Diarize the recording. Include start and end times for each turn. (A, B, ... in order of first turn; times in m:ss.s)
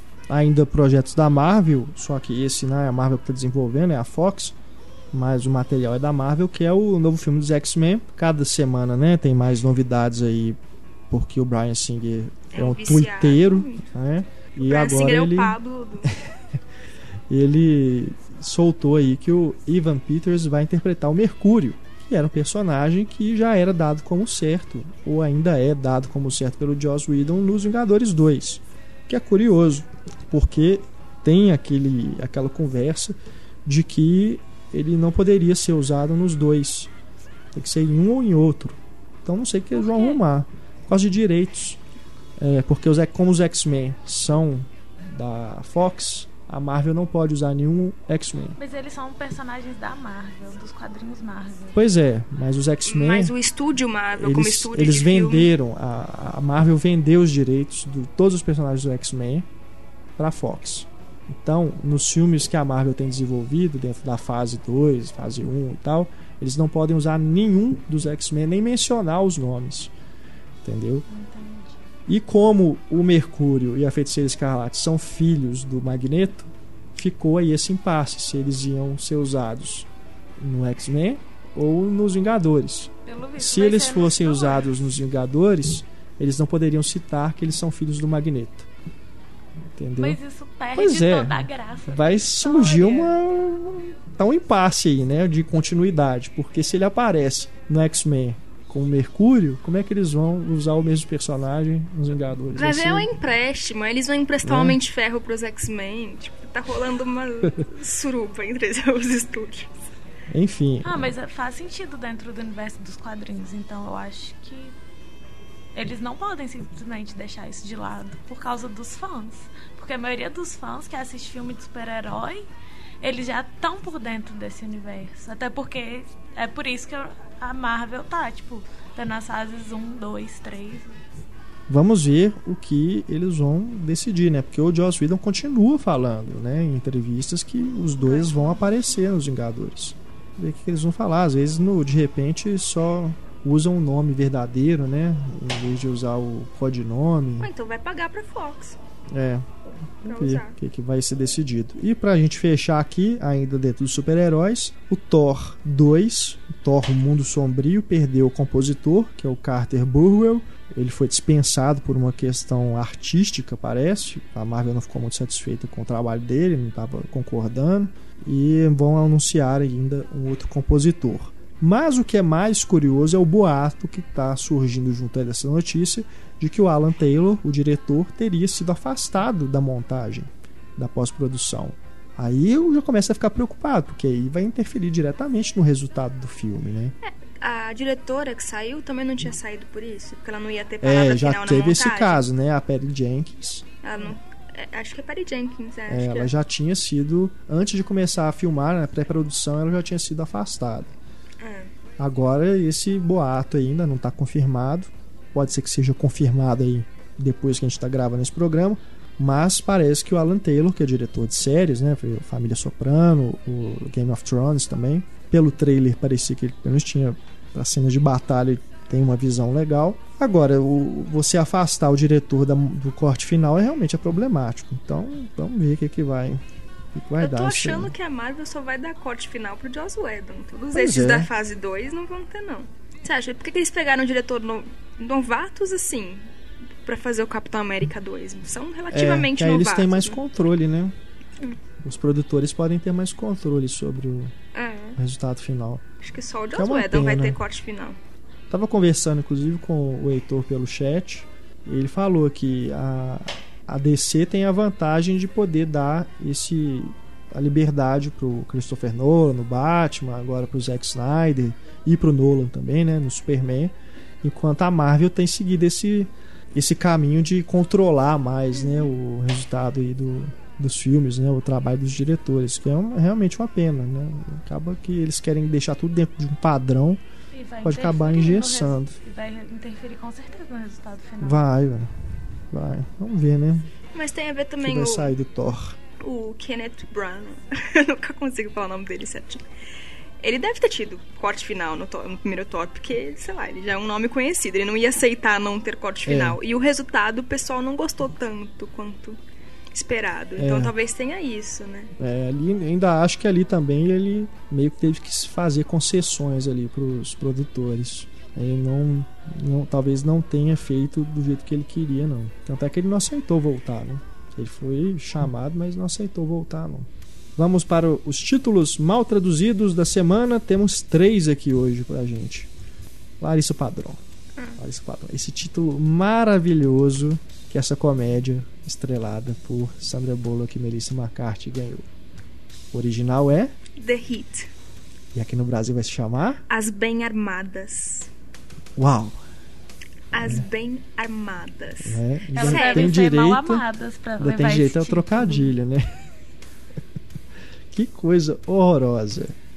0:00.3-0:04.5 A
0:05.1-0:10.6 A
0:11.1-0:16.2 A
0:12.5-0:13.8 B
0:14.6-0:16.1 B
0:17.3-0:36.9 A
0:37.5-0:41.8 A
0:39.7-0:40.2 C
0:42.4-0:48.6 A
0:48.6-0:51.8 C
0:51.7-0:53.3 A
0:52.8-0:55.5 B
0:54.2-0:59.5 A
1:00.2-1:09.9 A
1:10.6-1:11.0 A
1:11.1-1:11.8 C
1:12.1-1:28.7 A
1:23.0-1:24.7 C
1:29.7-1:30.2 A
1:30.0-1:33.2 C
1:30.8-1:43.1 A
1:42.6-1:49.7 B
1:44.4-1:44.8 A
1:50.3-1:51.0 A
1:50.8-1:54.7 C
1:55.7-2:02.5 C
2:03.0-2:11.0 C
2:11.7-2:27.5 A
2:18.1-2:18.6 C
2:27.4-2:28.8 B
2:29.1-2:29.5 A
2:30.0-3:06.9 A
2:30.1-2:30.6 B
3:07.0-3:12.2 B
3:10.8-3:14.1 A
3:13.8-3:16.3 B
3:15.9-3:20.9 A
3:21.4-3:21.7 B
3:22.0-3:46.4 A
3:46.9-3:47.9 A
3:47.2-3:56.3 B
3:50.7-3:51.3 A
3:56.8-4:00.2 B
3:58.9-4:00.9 A
4:01.8-4:04.3 A
4:04.5-4:05.0 B
4:05.0-4:05.8 A
4:06.0-4:08.0 B
4:06.6-4:07.4 A
4:08.5-4:37.0 A
4:37.3-4:41.4 C
4:37.6-4:39.0 A
4:41.2-4:41.9 A
4:42.5-4:43.7 A
4:43.9-4:45.1 B
4:44.6-4:45.8 A
4:46.0-4:49.4 B
4:50.2-4:59.2 B
4:56.0-4:56.4 A
4:59.7-5:01.9 B
5:00.4-5:00.7 A
5:02.0-5:22.5 A
5:23.2-5:24.0 A
5:24.6-5:31.9 A
5:32.7-5:33.5 A
5:33.8-5:34.5 B
5:35.1-5:36.4 A
5:36.5-5:38.1 B
5:38.8-5:39.2 A
5:40.1-5:43.0 B
5:41.8-5:43.6 A
5:42.3-5:45.5 C
5:44.2-5:46.0 A
5:47.7-5:49.4 A